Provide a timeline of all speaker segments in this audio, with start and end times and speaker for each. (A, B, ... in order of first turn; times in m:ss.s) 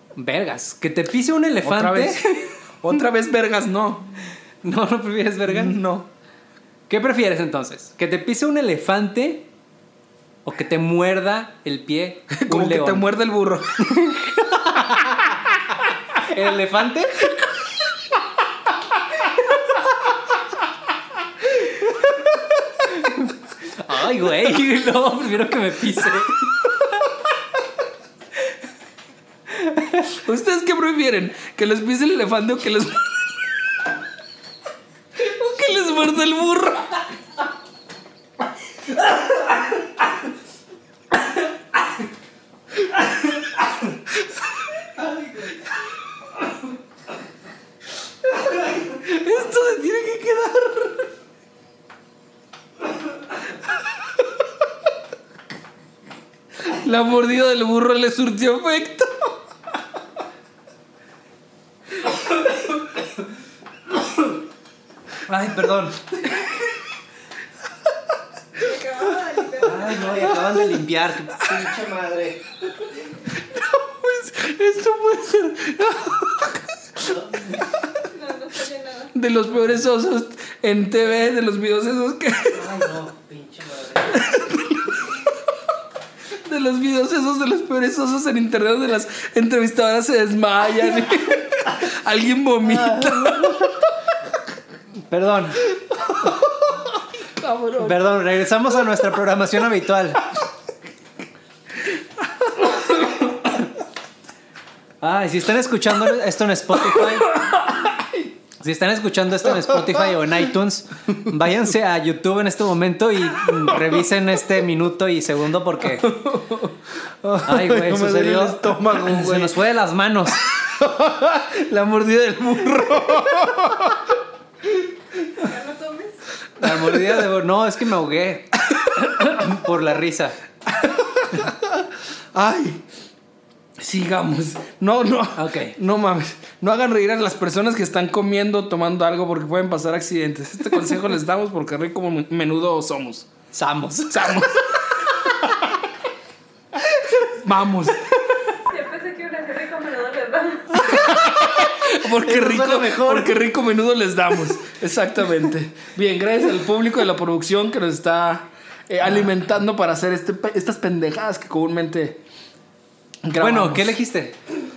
0:00.2-0:02.5 A
0:01.6-0:04.1 B
0:04.6-0:05.8 A
0:05.5-0:06.1 B
0:06.9-0:09.5 A
0:10.4-0:13.1 A
0:12.4-0:13.7 B
0:13.8-0:15.4 A
0:16.2-0:17.3 A
0:22.9-0:26.9 A
0:29.5-0:30.1 A
0:30.1-0:33.6 B
0:35.2-0:37.0 B
0:45.0-0:45.5 A
0:48.8-0:51.1 B
0:56.6-0:59.4 B
1:05.3-1:06.4 A
1:08.6-1:10.3 C
1:09.6-1:12.4 A
1:10.1-1:10.6 B
1:13.4-1:17.2 B
1:17.0-1:17.6 A
1:18.1-1:19.1 C
1:19.1-1:22.7 B
1:22.5-1:24.3 A
1:24.1-1:25.0 B
1:26.4-1:33.7 B
1:32.6-1:33.8 A
1:35.1-1:35.7 A
1:37.4-1:38.0 B
1:37.8-1:40.3 A
1:42.6-1:43.2 B
1:45.0-1:47.4 A
1:47.4-1:48.2 B
1:48.6-1:56.2 A
1:56.0-1:59.6 B
1:57.4-2:00.4 A
2:00.6-2:04.1 B
2:05.4-2:06.2 C
2:06.6-2:10.4 A
2:06.6-2:07.1 B
2:10.7-2:11.8 B
2:12.3-2:12.8 B
2:13.8-2:23.3 B
2:15.4-2:15.8 A
2:23.5-2:24.4 A
2:24.1-2:25.3 B
2:27.3-2:28.0 B
2:28.7-2:30.9 C
2:30.8-2:33.4 A
2:30.9-2:42.2 B
2:43.2-2:44.0 B
2:43.4-2:44.4 A